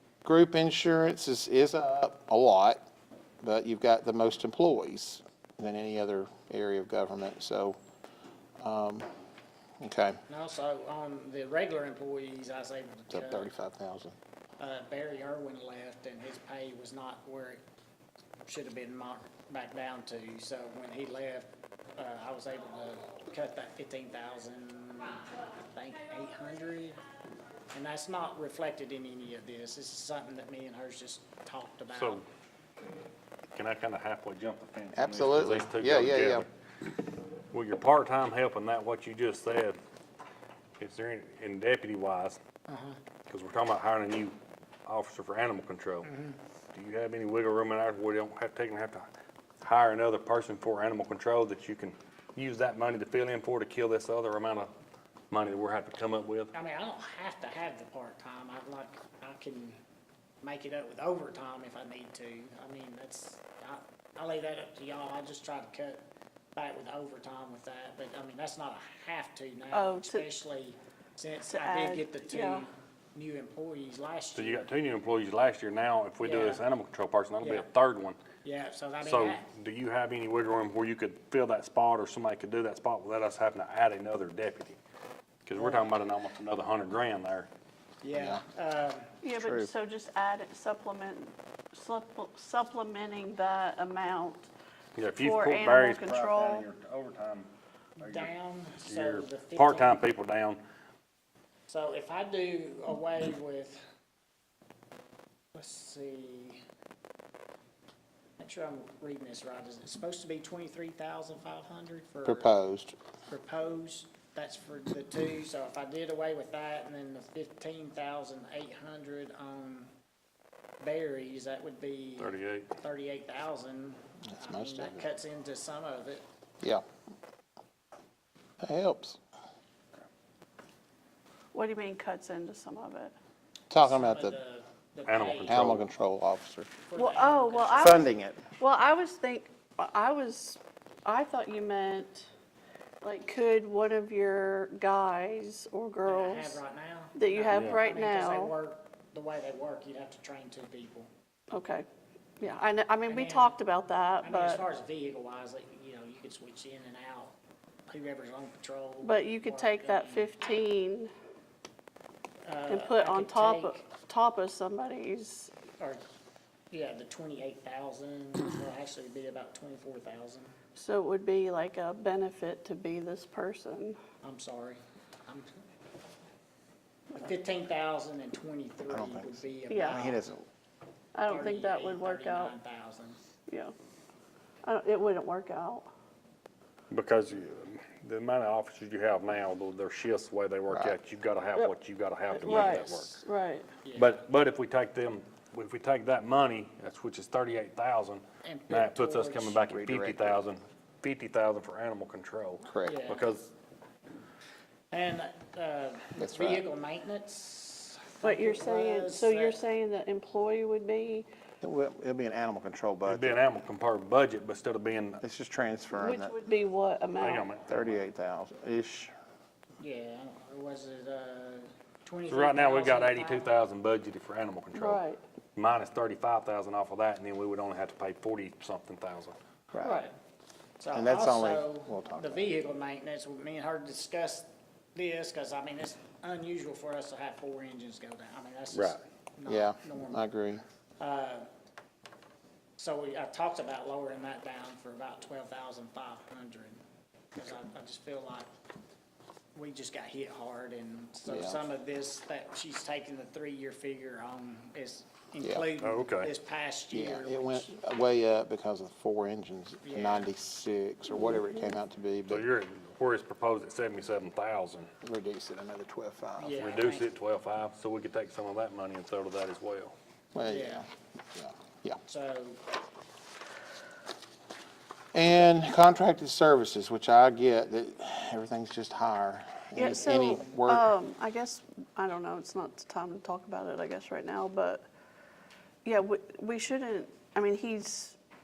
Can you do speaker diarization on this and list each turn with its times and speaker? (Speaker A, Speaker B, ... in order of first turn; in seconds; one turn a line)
Speaker A: 0.2-2.8
Speaker A: 3.4-7.8
Speaker A: 8.6-9.1
Speaker A: 9.8-10.2
Speaker B: 10.3-13.5
Speaker A: 13.1-14.2
Speaker B: 14.6-17.6
Speaker B: 18.4-27.0
Speaker B: 27.7-32.2
Speaker C: 31.9-32.2
Speaker C: 33.5-36.5
Speaker A: 34.9-36.5
Speaker C: 37.5-39.8
Speaker C: 40.8-42.4
Speaker B: 42.7-43.0
Speaker C: 43.3-46.1
Speaker B: 46.0-46.4
Speaker C: 46.7-49.1
Speaker C: 49.6-54.7
Speaker C: 55.3-56.5
Speaker B: 56.5-59.8
Speaker B: 60.4-66.0
Speaker B: 66.5-74.6
Speaker D: 69.7-70.2
Speaker D: 71.5-72.7
Speaker C: 74.3-78.2
Speaker B: 76.2-76.6
Speaker B: 77.4-77.7
Speaker B: 78.4-79.5
Speaker C: 79.0-84.8
Speaker C: 85.5-87.5
Speaker B: 85.6-85.9
Speaker B: 88.0-89.1
Speaker A: 88.1-88.4
Speaker D: 89.2-94.5
Speaker A: 89.3-89.7
Speaker C: 95.0-100.6
Speaker D: 95.2-96.7
Speaker B: 98.0-100.0
Speaker B: 101.7-103.8
Speaker B: 105.5-106.6
Speaker B: 108.4-112.5
Speaker A: 112.2-113.0
Speaker B: 113.3-119.9
Speaker B: 120.8-126.2
Speaker C: 122.2-122.7
Speaker A: 124.3-125.0
Speaker A: 128.6-129.2
Speaker D: 131.5-133.1
Speaker A: 133.7-134.4
Speaker B: 133.8-135.7
Speaker C: 135.1-135.8
Speaker A: 135.5-136.7
Speaker B: 136.8-138.1
Speaker D: 136.9-138.0
Speaker A: 137.8-138.5
Speaker D: 138.6-142.3
Speaker D: 143.0-146.6
Speaker B: 146.0-151.1
Speaker D: 147.1-148.5
Speaker C: 147.5-147.8
Speaker D: 151.5-151.9
Speaker D: 152.4-154.6
Speaker B: 153.1-153.6
Speaker B: 154.2-157.3
Speaker B: 157.9-160.3
Speaker D: 159.0-161.1
Speaker B: 162.4-163.8
Speaker D: 162.7-165.6
Speaker B: 166.7-170.5
Speaker D: 170.8-174.0
Speaker B: 174.2-175.5
Speaker B: 177.1-180.2
Speaker A: 178.9-180.4
Speaker D: 179.7-180.0
Speaker D: 181.1-182.5
Speaker B: 181.3-183.2
Speaker D: 183.5-183.7
Speaker D: 184.6-185.9
Speaker C: 186.9-193.1
Speaker A: 190.7-191.0
Speaker D: 192.4-193.7
Speaker B: 192.4-193.2
Speaker B: 193.8-194.2
Speaker C: 193.9-203.5
Speaker B: 198.4-199.6
Speaker A: 199.7-200.4
Speaker A: 202.6-203.0
Speaker B: 202.8-203.3
Speaker B: 204.9-209.6
Speaker A: 206.2-206.6
Speaker D: 208.2-211.3
Speaker A: 211.6-213.6
Speaker C: 213.1-215.2
Speaker A: 215.2-216.3
Speaker D: 215.9-217.5
Speaker C: 217.2-218.0
Speaker A: 217.7-219.1
Speaker B: 219.8-223.5
Speaker C: 222.3-225.0
Speaker D: 224.7-225.2
Speaker C: 225.6-229.3
Speaker B: 229.8-230.1
Speaker D: 229.8-230.1
Speaker B: 230.8-240.2
Speaker A: 230.9-232.5
Speaker C: 238.7-239.0
Speaker A: 239.4-240.6
Speaker B: 241.0-241.5
Speaker B: 242.8-246.8
Speaker B: 247.3-248.5
Speaker B: 249.5-257.7
Speaker A: 251.2-251.6
Speaker A: 255.4-255.7
Speaker C: 255.8-256.3
Speaker A: 256.9-262.4
Speaker B: 259.8-260.3
Speaker C: 262.3-264.9
Speaker A: 265.0-266.6
Speaker B: 266.4-267.1
Speaker C: 266.6-269.9
Speaker A: 270.3-272.0
Speaker B: 270.5-270.9
Speaker B: 272.1-272.6
Speaker A: 275.1-280.9
Speaker D: 279.8-284.9
Speaker D: 285.8-288.2